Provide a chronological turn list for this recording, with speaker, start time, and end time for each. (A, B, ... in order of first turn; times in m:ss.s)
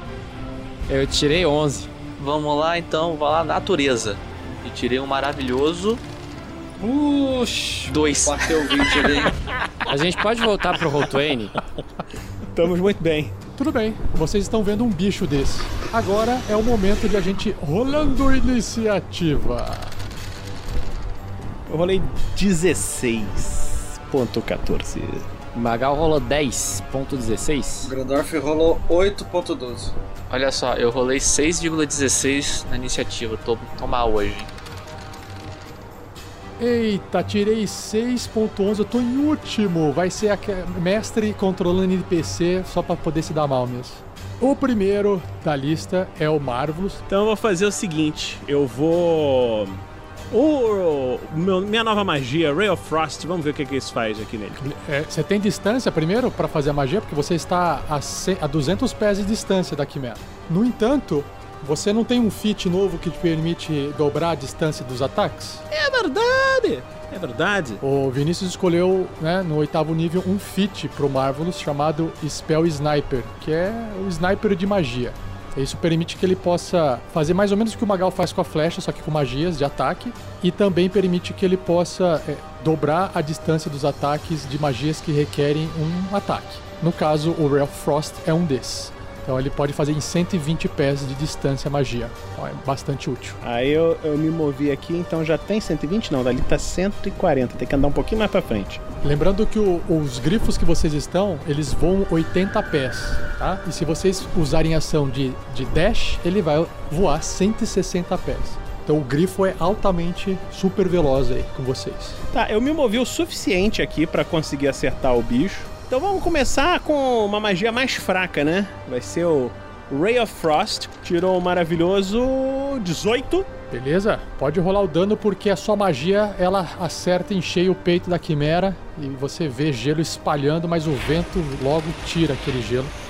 0:00.9-0:01.9 A
0:02.2-0:06.0 B
0:06.8-0:09.4 C
0:07.9-0:09.0 B
0:09.9-0:11.6 A
0:12.5-0:13.4 D
0:13.6-0:20.0 E
0:21.7-0:25.3 D
0:25.5-0:27.9 A
0:27.8-0:29.9 C
0:30.3-0:34.5 B
0:36.6-0:47.0 E
0:47.1-0:54.6 D
0:54.6-1:05.6 E
1:05.7-1:07.8 D
1:07.8-1:33.4 E
1:33.4-1:38.8 D
1:39.0-1:52.2 E
1:52.3-2:03.5 D
2:03.7-2:12.9 E